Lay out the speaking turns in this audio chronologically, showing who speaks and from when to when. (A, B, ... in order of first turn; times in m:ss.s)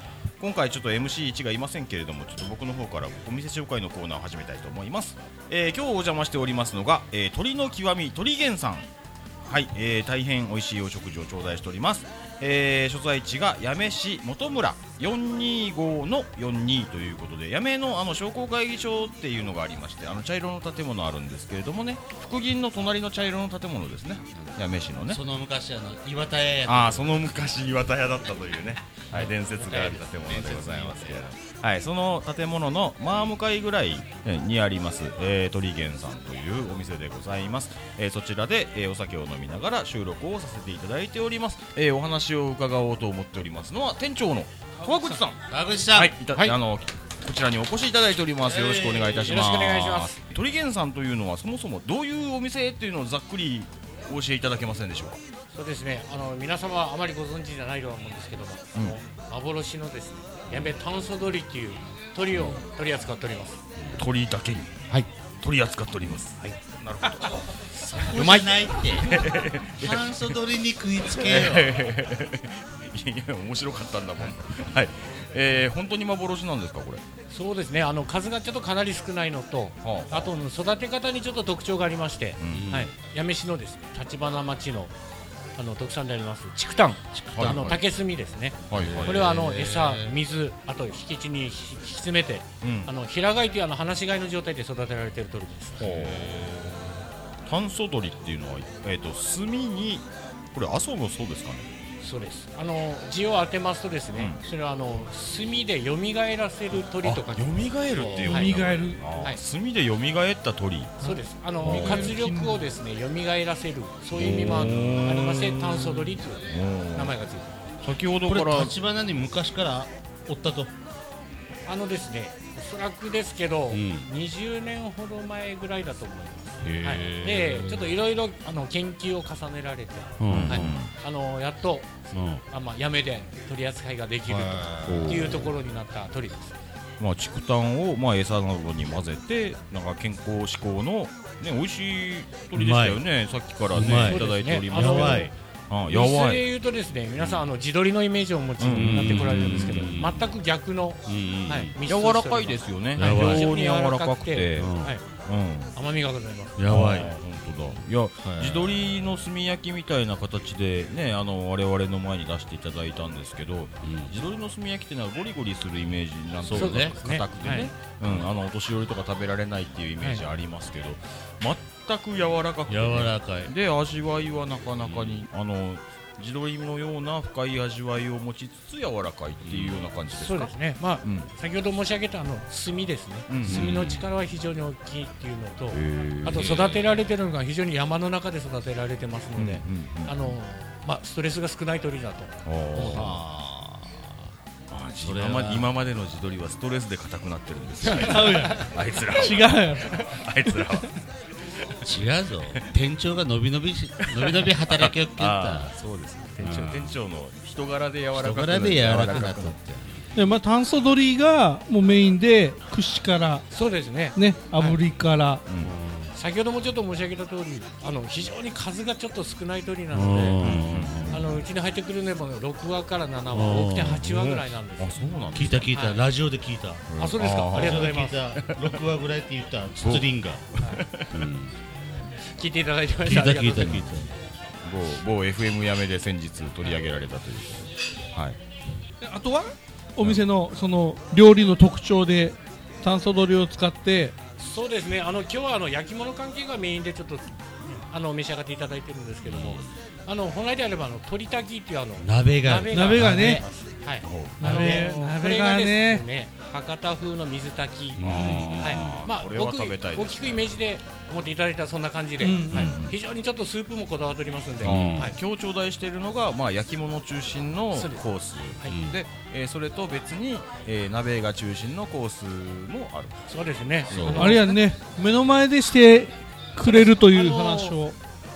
0:00.4-0:08.9 A
0:09.4-0:25.2 A
0:25.1-0:27.2 B
0:26.6-0:55.2 A
0:29.1-0:30.0 C
0:30.1-0:31.3 B
0:44.8-0:45.2 D
0:45.5-0:46.2 B
0:46.3-0:46.5 C
0:48.4-0:49.4 B
0:49.2-0:50.2 C
0:55.5-1:03.6 C
1:04.0-1:04.7 A
1:05.4-1:07.4 A
1:07.6-1:11.7 B
1:08.0-1:10.4 A
1:08.1-1:08.4 C
1:11.2-1:17.0 A
1:17.3-1:24.9 C
1:19.8-1:20.3 A
1:22.4-1:22.7 A
1:22.5-1:22.9 B
1:25.6-1:35.8 C
1:27.1-1:27.7 B
1:27.3-1:27.8 A
1:28.7-1:29.3 A
1:28.7-1:30.2 B
1:32.6-1:32.9 A
1:35.8-1:36.4 A
1:35.8-1:37.0 B
1:37.4-1:41.7 A
1:42.0-1:48.5 C
1:44.1-1:44.4 A
1:47.0-1:51.1 A
1:48.2-1:49.0 D
1:49.1-1:49.4 C
1:51.0-1:57.5 C
1:51.0-1:52.7 D
1:51.6-1:52.1 A
1:54.2-1:57.2 A
1:54.3-1:55.0 B
1:57.8-1:58.7 A
1:58.2-2:00.7 B
2:01.6-2:16.5 C
2:03.7-2:04.1 B
2:06.6-2:07.9 B
2:10.2-2:10.8 B
2:10.3-2:10.9 A
2:12.1-2:12.4 B
2:14.2-2:15.5 B
2:14.8-2:15.5 A
2:17.0-2:26.4 A
2:22.5-2:23.0 B
2:23.7-2:25.3 B
2:24.1-2:25.3 C
2:25.9-2:35.0 C
2:28.6-2:30.0 A
2:28.6-2:30.3 B
2:31.0-2:31.8 B
2:31.9-2:34.7 A
2:33.0-2:33.5 B
2:34.5-2:34.9 B
2:35.2-2:35.7 A
2:35.7-2:36.6 C
2:36.6-2:37.1 B
2:36.7-3:01.3 A
2:38.2-2:38.7 B
2:43.8-2:44.1 B
2:46.4-2:47.0 B
2:46.5-2:47.7 C
2:52.7-2:53.5 B
2:54.8-2:55.2 B
2:59.4-2:59.8 B
3:00.1-3:13.1 C
3:03.3-3:04.0 A
3:03.4-3:04.0 B
3:05.7-3:06.8 A
3:06.3-3:06.8 B
3:09.4-3:10.4 A
3:12.4-3:13.2 A
3:12.7-3:14.1 B
3:14.7-3:21.0 A
3:15.0-3:15.7 B
3:17.9-3:20.9 D
3:21.8-3:25.7 B
3:24.0-3:29.6 A
3:26.4-3:27.0 B
3:28.1-3:30.1 B
3:30.2-3:33.4 D
3:33.5-3:34.8 C
3:34.1-3:35.4 D
3:35.5-3:35.7 A
3:35.6-3:36.1 B
3:36.1-3:40.4 C
3:39.9-3:41.4 B
3:40.4-3:41.2 A
3:41.1-3:46.0 C
3:43.3-3:44.0 B
3:43.8-3:45.7 A
3:45.3-3:46.8 B
3:46.9-3:48.8 A
3:47.0-3:48.2 C
3:47.5-3:50.4 B
3:49.8-3:51.3 A
3:51.1-3:51.6 B
3:52.2-3:53.9 C
3:53.0-3:54.2 B
3:54.6-3:58.4 A
3:59.0-4:04.1 D
4:04.4-4:25.2 C
4:09.2-4:09.7 B
4:12.0-4:13.4 B
4:12.7-4:13.4 D
4:14.0-4:14.5 A
4:14.4-4:16.0 D
4:14.5-4:14.9 B
4:18.0-4:19.0 B
4:18.0-4:20.5 A
4:22.2-4:22.7 D
4:22.5-4:22.9 A
4:24.6-4:33.1 A
4:24.6-4:25.1 B
4:27.7-4:28.0 C
4:28.7-4:29.0 B
4:33.3-4:34.6 C
4:33.9-4:34.4 A
4:33.9-4:34.4 B
4:34.1-4:38.0 D
4:36.6-4:37.8 C